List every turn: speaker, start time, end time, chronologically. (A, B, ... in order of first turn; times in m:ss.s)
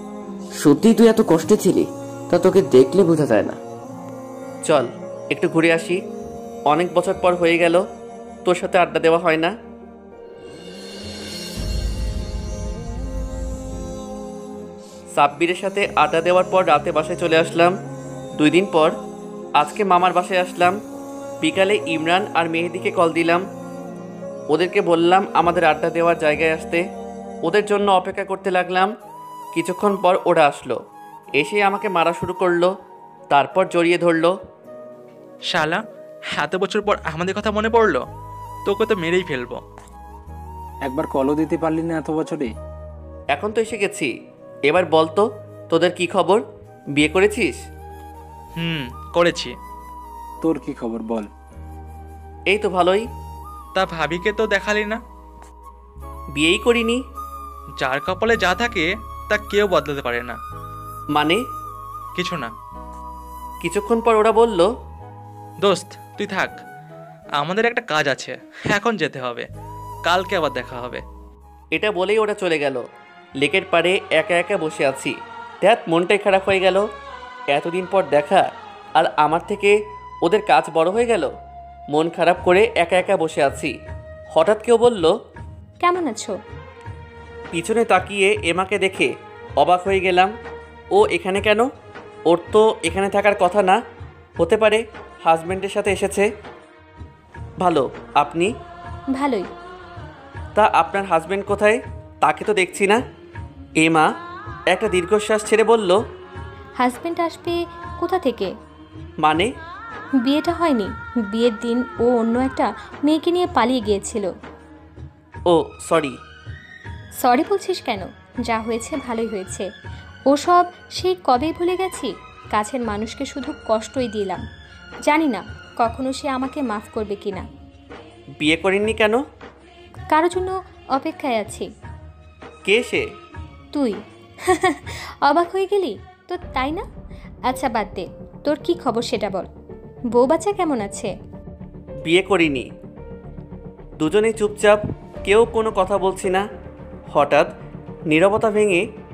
0:00.6-0:03.6 A
0:04.7-0:06.0 B
0:06.7-0:07.8 B
0:08.5-0:09.5 B
0:15.2-0:17.8 B
0:18.4-0:18.9 B
0:19.6-0:20.8 B
0:21.4-0:23.4 B
0:24.5-0:26.8 B
0:27.5-0:28.9 B
0:29.5-0:30.8 B
0:31.4-0:32.7 B
0:33.3-0:34.3 B
0:35.5-0:35.8 C
0:36.3-0:38.0 C
0:38.7-0:39.6 C
0:40.8-0:42.5 D
0:43.3-0:44.1 B
0:44.7-0:46.4 B
0:47.0-0:47.6 B
0:48.6-0:49.6 C
0:50.4-0:51.3 D
0:52.5-0:53.0 B
0:53.8-0:55.0 C
0:56.4-0:57.0 B
0:57.8-1:00.4 C
1:01.1-1:01.4 B
1:02.2-1:02.5 C
1:03.6-1:04.7 B
1:05.6-1:06.6 C
1:07.4-1:09.5 C
1:10.0-1:11.0 C
1:11.7-1:12.8 B
1:13.4-1:16.8 B
1:17.5-1:18.4 B
1:19.0-1:21.3 B
1:21.9-1:23.7 B
1:24.3-1:25.1 B
1:25.8-1:26.4 E
1:27.5-1:29.1 B
1:29.6-1:30.3 B
1:31.0-1:31.7 B
1:32.3-1:33.8 B
1:34.4-1:36.3 B
1:37.6-1:38.5 B
1:39.1-1:39.5 E
1:40.6-1:43.0 B
1:43.8-1:44.1 B
1:44.7-1:46.0 B
1:46.8-1:48.5 E
1:49.2-1:49.5 B
1:50.2-1:54.3 E
1:55.5-1:56.2 B
1:57.2-1:59.7 E
2:00.3-2:04.4 E
2:05.1-2:07.5 E
2:08.4-2:09.2 B
2:10.1-2:11.7 E
2:12.7-2:13.0 B
2:13.7-2:14.0 E
2:14.5-2:16.9 E
2:17.5-2:19.5 E
2:20.1-2:21.1 E
2:22.1-2:22.7 B
2:24.0-2:26.4 B
2:27.1-2:27.5 B
2:28.1-2:28.8 B